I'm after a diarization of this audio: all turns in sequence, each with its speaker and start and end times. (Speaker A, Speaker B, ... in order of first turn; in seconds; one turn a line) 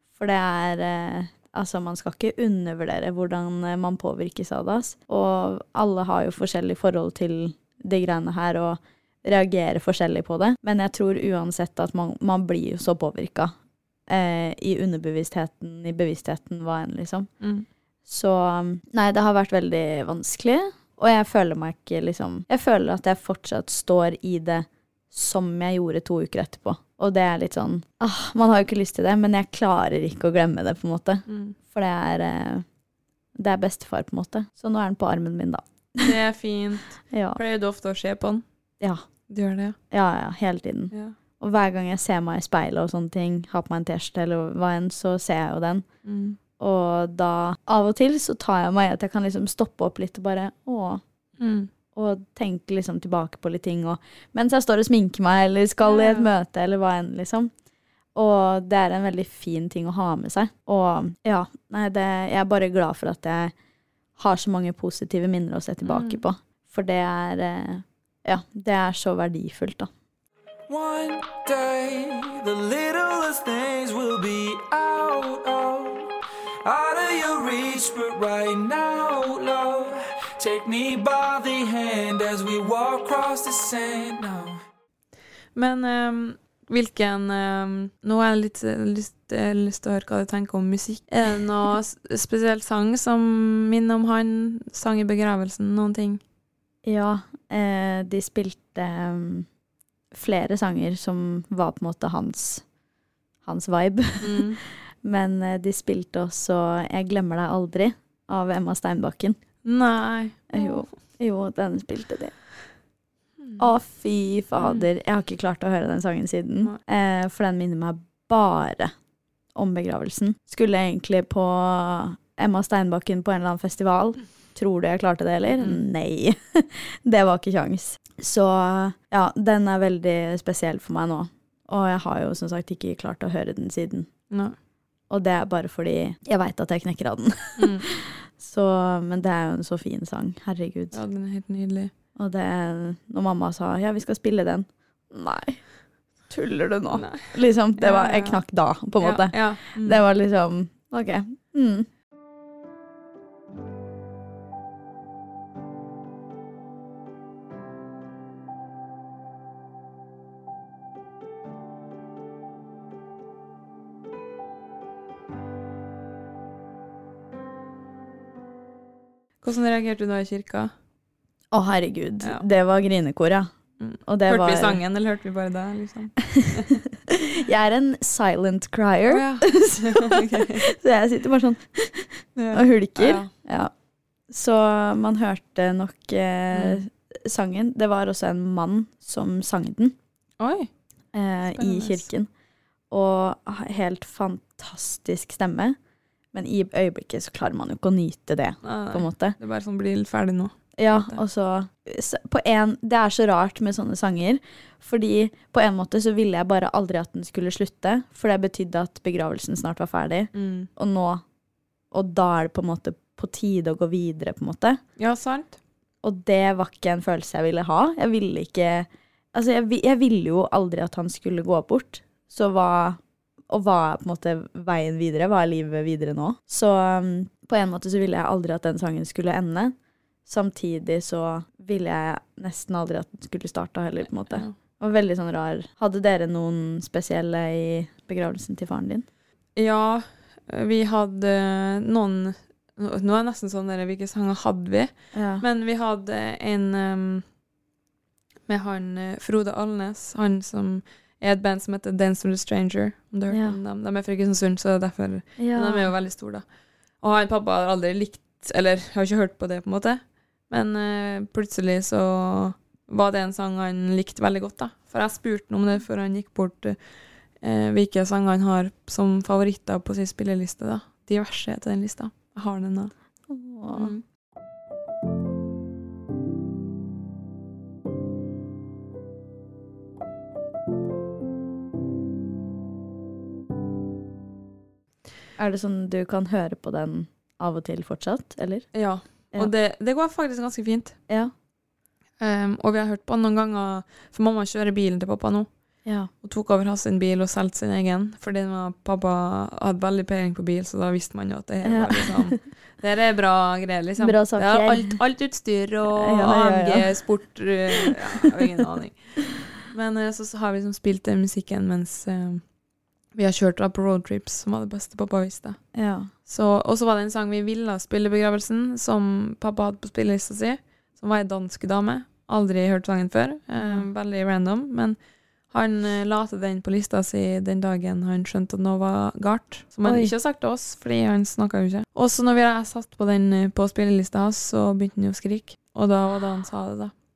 Speaker A: 0.2-13.5
Speaker A: 14.1-17.3
Speaker B: 17.4-17.7
Speaker A: 18.1-32.6
Speaker B: 31.3-31.5
Speaker A: 33.3-36.1
Speaker B: 36.0-38.4
Speaker A: 37.1-37.4
Speaker B: 39.3-39.8
Speaker A: 39.9-45.9
Speaker B: 46.0-46.4
Speaker A: 46.6-51.0
Speaker B: 51.4-51.7
Speaker A: 51.9-57.5
Speaker B: 55.8-56.3
Speaker A: 58.1-63.5
Speaker A: 64.2-69.9
Speaker B: 65.8-66.2
Speaker C: 70.7-76.1
Speaker C: 76.6-84.6
Speaker B: 85.5-96.2
Speaker A: 96.8-99.5
Speaker A: 100.1-102.6
Speaker A: 103.4-109.4
Speaker B: 104.2-104.6
Speaker B: 109.6-110.8
Speaker A: 110.5-112.4
Speaker B: 113.4-113.7
Speaker A: 113.6-118.9
Speaker B: 114.6-114.9
Speaker A: 119.5-134.1
Speaker B: 125.5-125.8
Speaker B: 134.3-134.6
Speaker A: 135.1-141.0
Speaker B: 137.6-137.9
Speaker B: 140.9-141.9
Speaker A: 142.2-145.6
Speaker A: 146.3-151.9
Speaker B: 146.9-148.4
Speaker B: 149.0-150.0
Speaker B: 169.4-170.7
Speaker A: 171.5-173.5
Speaker B: 173.8-176.7
Speaker A: 174.1-174.8
Speaker A: 177.1-183.7
Speaker B: 179.1-180.7
Speaker B: 182.3-183.3
Speaker A: 184.3-189.9
Speaker B: 186.5-186.8
Speaker B: 190.4-190.7
Speaker A: 191.1-192.3
Speaker B: 191.5-192.1
Speaker A: 192.9-195.8
Speaker A: 196.3-199.4
Speaker B: 198.6-201.2
Speaker A: 200.8-211.2
Speaker B: 210.3-210.7
Speaker A: 211.9-214.8
Speaker B: 215.0-215.6
Speaker A: 216.0-229.7
Speaker A: 230.2-239.1
Speaker B: 239.6-247.2
Speaker A: 245.1-245.4
Speaker B: 248.5-256.4
Speaker A: 253.3-253.6
Speaker A: 255.4-255.9
Speaker B: 257.0-272.9
Speaker A: 273.3-273.9
Speaker B: 273.7-274.0
Speaker A: 285.4-288.7
Speaker B: 288.7-291.0
Speaker B: 292.2-295.5
Speaker B: 296.2-312.4
Speaker A: 301.6-302.4
Speaker A: 304.0-304.9
Speaker A: 305.9-306.9
Speaker A: 307.7-308.4
Speaker B: 313.1-315.6
Speaker A: 315.7-316.1
Speaker B: 316.2-325.0
Speaker A: 323.6-323.9
Speaker B: 325.5-336.9
Speaker A: 329.8-330.1